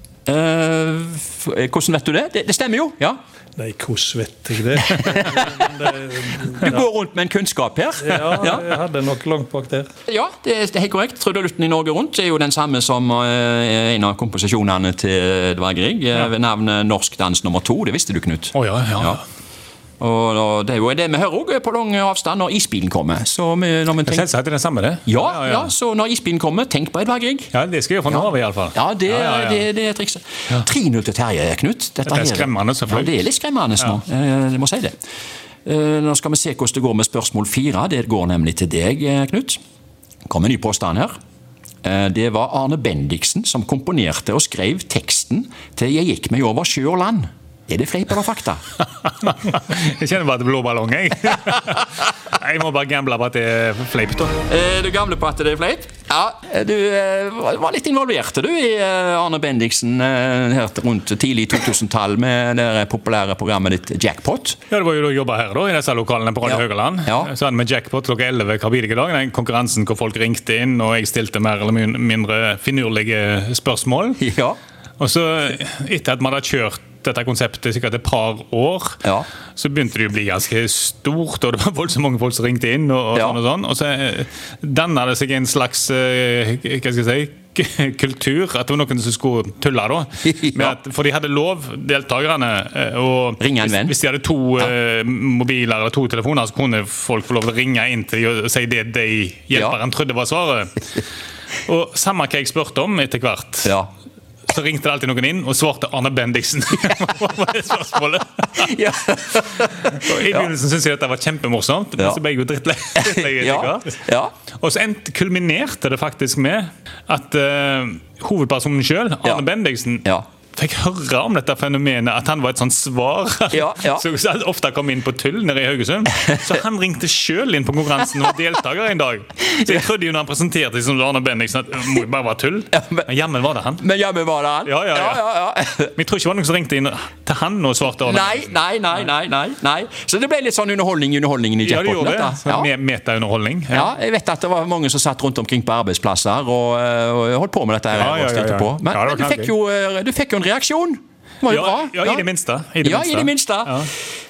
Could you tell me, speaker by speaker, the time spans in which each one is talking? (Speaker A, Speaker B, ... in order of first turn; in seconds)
Speaker A: 0.3-3.2, 5.0-5.6, 6.6-8.7, 10.1-19.2, 20.0-24.2, 25.1-27.5, 28.1-34.9, 35.6-39.6, 40.3-41.1, 41.8-48.6, 54.5-64.6, 66.4-67.3, 74.2-74.6, 79.0-79.3, 90.4-90.7, 93.4-93.9, 103.6-103.9, 108.6-110.5, 113.0-114.3, 123.5-124.0, 132.7-133.1, 133.8-135.9, 138.0-142.7, 143.7-152.3, 152.8-153.9
Speaker B: 3.6-6.8, 8.0-9.9
Speaker C: 18.5-19.2, 24.0-25.7, 27.5-29.7, 32.0-33.2, 49.0-54.4, 64.7-74.2, 75.0-79.0, 79.5-100.8, 101.6-103.7, 104.5-108.7, 109.8-114.0, 114.6-133.8, 134.7-135.3, 135.9-138.6, 141.6-143.9, 147.9-149.5, 151.4-153.9